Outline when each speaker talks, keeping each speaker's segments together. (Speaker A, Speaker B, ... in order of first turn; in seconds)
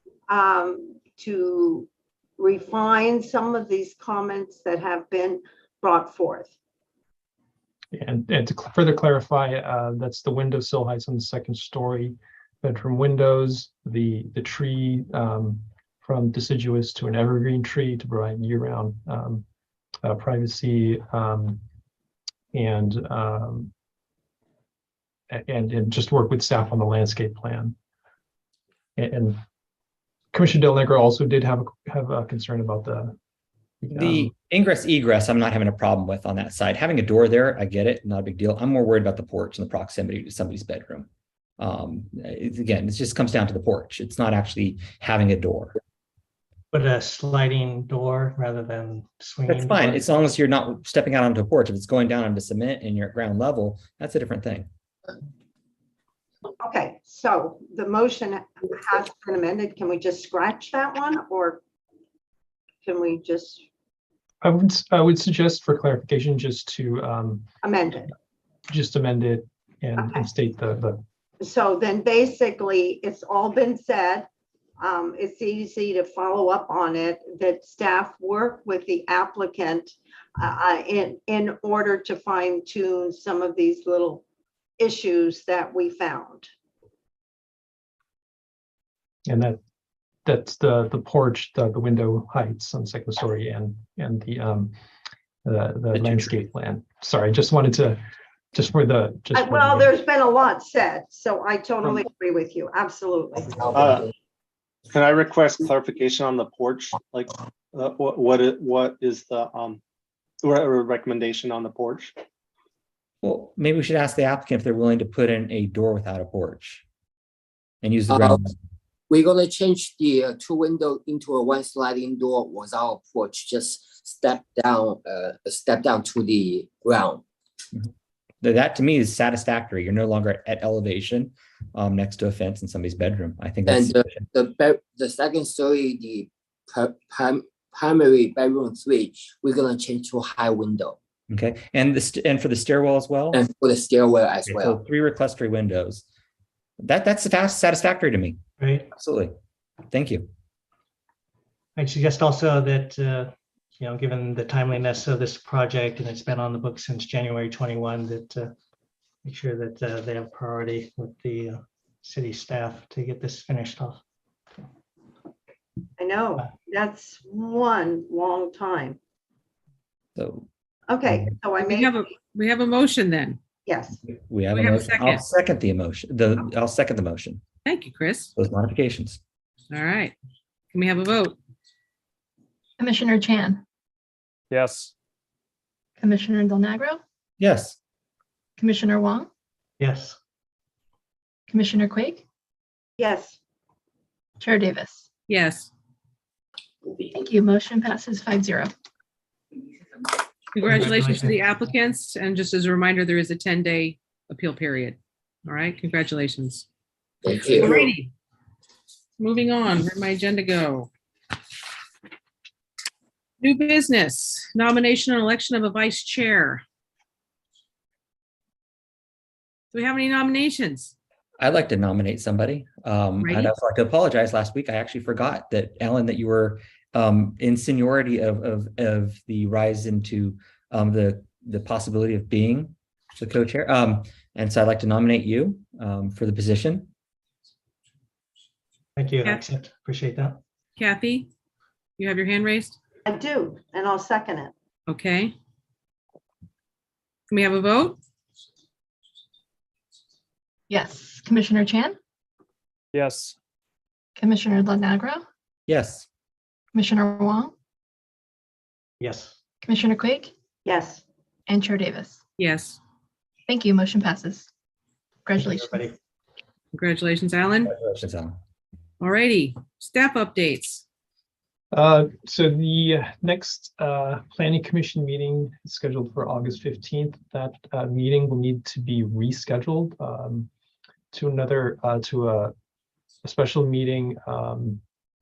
Speaker A: 0.3-6.5, 56.6-61.6, 62.8-63.6, 67.6-68.1, 70.0-70.3, 71.4-74.3, 74.8-84.2, 84.8-86.5, 99.3-103.6, 166.0-169.0, 170.9-172.1, 173.7-174.0, 193.0-193.4, 243.1-244.5, 260.6-261.0
Speaker B: 7.9-19.5, 20.0-21.6, 22.5-23.7, 25.3-27.8, 29.0-29.4, 30.3-33.2, 33.8-34.3, 64.4-67.5, 68.7-71.0, 89.3-89.6, 90.2-94.7, 95.5-98.0, 98.5-99.9, 271.7-280.5, 281.1-282.5, 283.2-284.8
Speaker C: 34.0-45.8, 49.5-54.7, 96.0-96.3, 113.2-116.8, 117.8-118.5, 128.4-134.2, 141.3-143.4, 144.5-146.0, 146.8-148.4, 149.0-149.3, 149.9-150.3, 170.2-170.5, 174.3-177.4, 178.4-179.2, 187.4-187.8, 221.4-236.9, 255.7-256.1, 267.6-268.4
Speaker D: 46.7-50.0, 148.6-148.9, 151.8-158.5, 159.2-164.0, 189.8-190.2, 200.6-201.5, 239.0-240.4, 259.0-259.4, 265.4-265.9
Speaker E: 103.5-104.1, 118.1-118.4, 119.1-127.2, 133.7-141.0, 143.3-144.8, 207.2-207.9
Speaker F: 103.7-104.1, 104.9-109.8, 110.4-112.2
Speaker G: 171.6-173.4, 174.5-175.2, 177.7-178.3, 179.7-180.2, 180.7-181.4, 195.3-195.7, 200.5-206.7, 207.6-208.1, 209.2-210.9, 213.4-216.6, 219.7-220.9, 223.2-223.5, 240.8-241.3, 242.0-242.8, 244.9-245.3, 247.3-248.0, 262.4-262.8, 266.7-267.7, 269.0-270.8
Speaker H: 182.8-183.6, 186.0-187.0, 188.6-189.3, 191.5-192.2, 194.4-195.0, 197.1-198.7, 250.7-252.0, 254.2-255.2, 256.7-257.5, 259.6-260.3, 261.5-262.2, 263.5-264.5, 265.3-265.9